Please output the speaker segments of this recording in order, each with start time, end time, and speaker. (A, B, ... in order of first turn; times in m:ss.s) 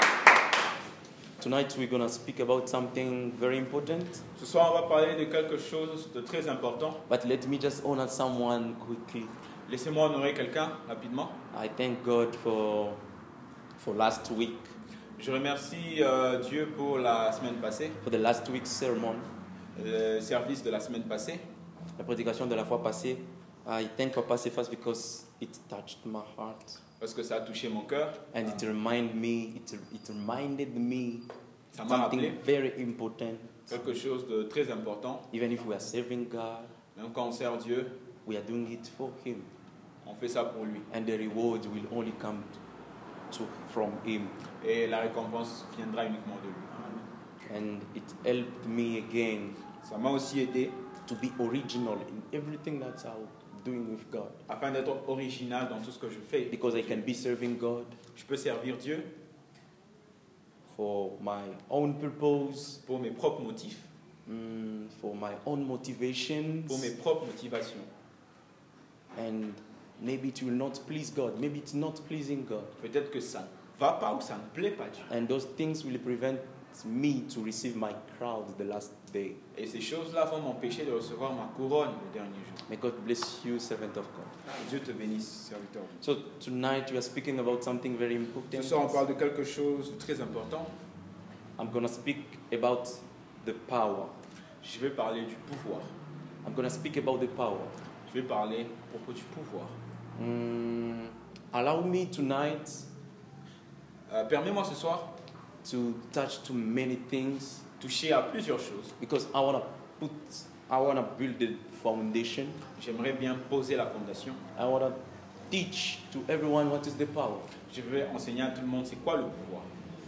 0:01.4-0:04.2 A
0:04.4-0:07.0 B
0:07.1-0:09.3 A
0:09.7-0:11.3 B
0:11.5-0:13.0 A
0:13.8-0:14.7 A
0:15.2-0:18.0 B
0:18.0-0:19.3 A
0:19.8-0:21.4 B
0:22.0-0:26.8 A
0:27.0-0:28.5 B
0:28.3-0:31.2 A
0:31.7-0:32.4 B
0:31.8-0:33.7 A
0:33.7-0:35.2 B
0:35.3-0:36.7 A
0:37.0-0:37.9 B
0:38.2-0:39.5 A
0:40.0-0:40.8 B
0:40.9-0:42.6 A
0:43.3-0:44.4 A
0:44.6-0:47.0 B
0:47.5-0:49.6 A
0:49.8-0:50.7 B
0:51.0-0:54.4 A
0:54.5-0:57.0 B
0:56.5-0:58.0 A
0:58.1-0:59.1 B
1:00.7-1:02.8 A
1:02.8-1:03.9 B
1:04.2-1:06.9 A
1:06.7-1:07.9 B
1:09.1-1:12.7 A
1:12.8-1:15.0 B
1:15.1-1:19.4 A
1:19.5-1:22.6 B
1:22.7-1:24.3 A
1:24.5-1:25.9 B
1:26.0-1:29.0 A
1:28.5-1:30.7 B
1:31.6-1:34.1 A
1:34.6-1:35.8 B
1:36.4-1:37.7 A
1:38.1-1:39.7 B
1:40.2-1:42.9 A
1:44.1-1:45.1 B
1:45.6-1:47.6 A
1:47.8-1:48.9 B
1:49.0-1:52.6 A
1:52.8-1:54.4 B
1:54.5-1:57.5 A
1:57.7-1:59.7 B